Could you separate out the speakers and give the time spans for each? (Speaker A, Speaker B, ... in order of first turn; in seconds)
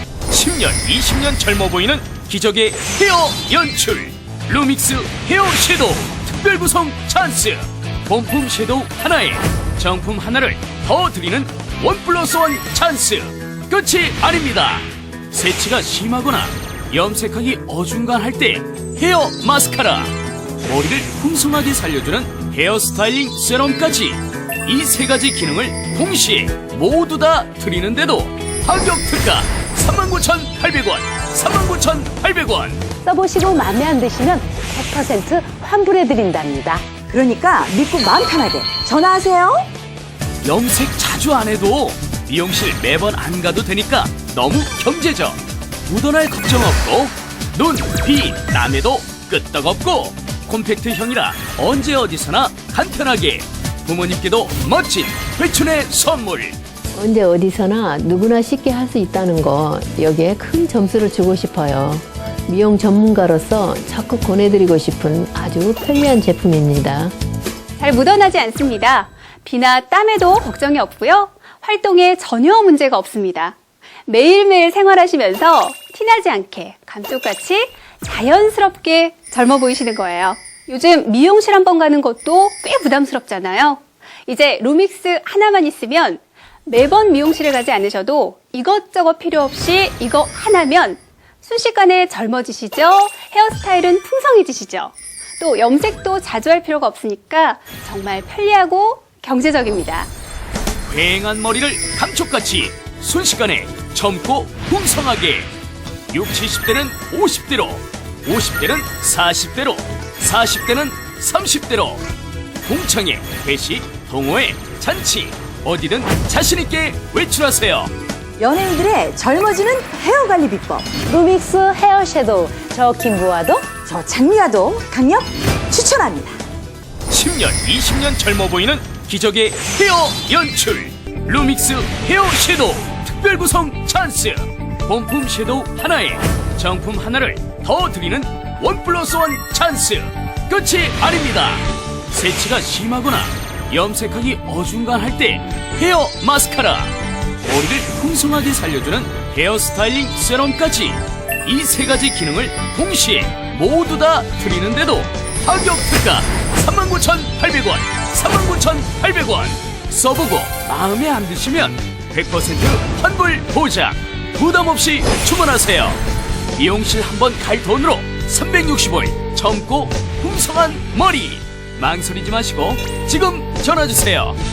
Speaker A: 0.3-32.8, 40.4-56.6, 100.9-105.5, 106.1-112.0, 112.7-117.9, 127.1-166.0, 166.6-174.4
Speaker B: 33.0-36.9, 121.2-123.7
Speaker C: 36.9-39.7, 118.4-121.2, 122.6-126.4
Speaker D: 56.9-67.1
Speaker E: 67.8-100.1